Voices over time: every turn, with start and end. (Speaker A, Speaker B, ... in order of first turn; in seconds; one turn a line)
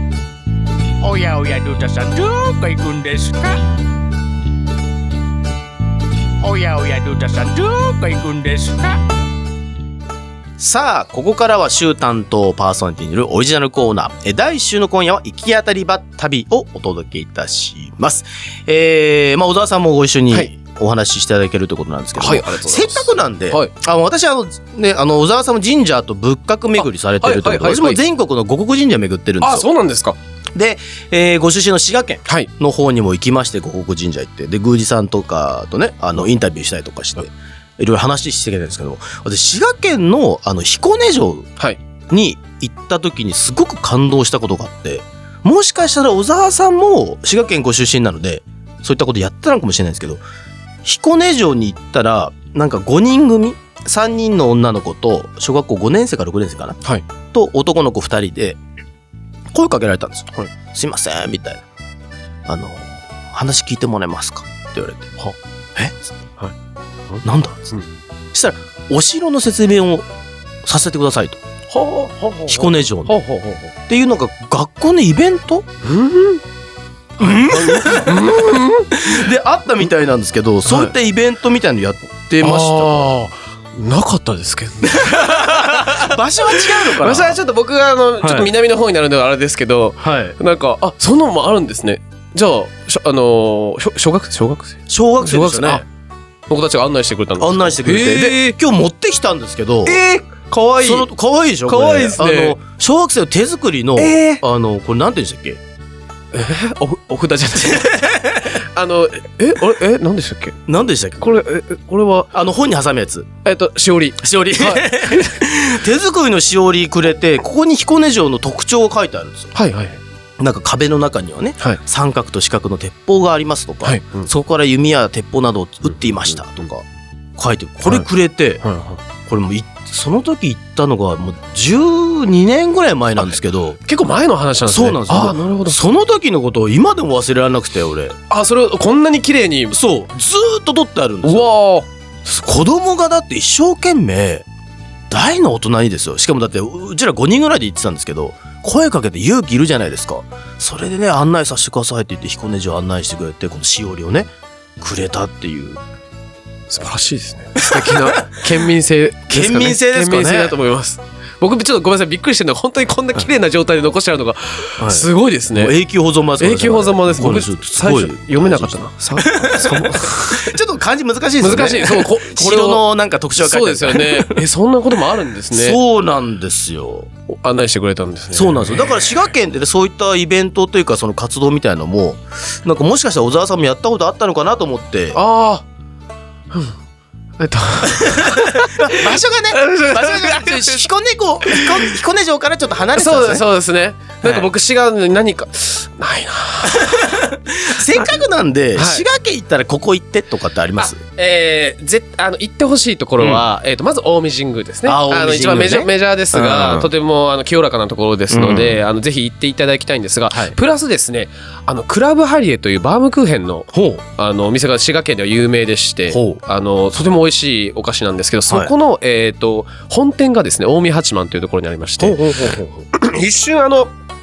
Speaker A: 1.0-3.6
Speaker A: 6.4-8.9
Speaker B: 10.6-29.7
Speaker C: 22.2-23.7
Speaker C: 26.8-28.0
Speaker C: 29.4-30.1
Speaker B: 30.5-41.5
Speaker B: 42.1-50.2
Speaker B: 50.8-56.8
Speaker B: 57.3-58.6
Speaker B: 59.5-61.6
Speaker B: 62.5-65.2
Speaker C: 67.1-67.9
Speaker B: 67.2-67.7
Speaker B: 68.3-70.1
Speaker B: 70.6-71.4
Speaker C: 71.7-73.7
Speaker B: 72.5-73.2
Speaker B: 73.9-75.7
Speaker C: 75.8-76.4
Speaker B: 77.2-78.3
Speaker C: 77.2-79.0
Speaker B: 78.9-83.1
Speaker C: 80.7-80.9
Speaker C: 82.4-95.8
Speaker B: 84.8-87.4
Speaker B: 88.2-88.5
Speaker B: 90.0-90.3
Speaker B: 94.9-95.8
Speaker C: 96.5-98.6
Speaker B: 97.4-100.0
Speaker C: 99.8-101.1
Speaker B: 100.8-105.6
Speaker C: 101.7-102.6
Speaker C: 104.0-104.4
Speaker C: 106.3-110.6
Speaker B: 107.8-108.2
Speaker B: 110.7-111.4
Speaker C: 111.2-112.3
Speaker B: 112.3-113.3
Speaker C: 113.4-115.4
Speaker B: 114.2-119.5
Speaker C: 119.5-120.0
Speaker B: 120.4-126.8
Speaker C: 123.8-124.3
Speaker B: 127.4-128.6
Speaker C: 128.6-129.0
Speaker B: 129.2-133.8
Speaker C: 133.9-135.8
Speaker B: 134.6-138.2
Speaker C: 138.3-139.8
Speaker B: 139.7-141.5
Speaker C: 141.2-141.8
Speaker B: 142.2-144.4
Speaker B: 145.1-155.8
Speaker C: 156.7-165.7
Speaker B: 157.7-158.4
Speaker B: 159.3-160.6
Speaker B: 164.8-174.4
Speaker C: 166.4-170.5
Speaker C: 171.4-172.8
Speaker C: 173.4-175.8
Speaker B: 175.5-177.1
Speaker C: 177.3-179.0
Speaker B: 178.3-185.2
Speaker C: 185.1-185.7
Speaker C: 186.5-186.8
Speaker C: 187.4-190.8
Speaker B: 187.9-193.4
Speaker C: 191.4-191.9
Speaker C: 192.9-197.2
Speaker B: 194.2-194.5
Speaker B: 196.7-201.0
Speaker C: 197.9-198.2
Speaker C: 198.8-199.1
Speaker C: 200.8-222.3
Speaker B: 204.8-206.9
Speaker B: 208.3-208.8
Speaker B: 210.3-210.6
Speaker B: 213.7-214.0
Speaker B: 216.1-216.4
Speaker B: 218.5-218.7
Speaker B: 222.0-222.8
Speaker C: 222.9-223.9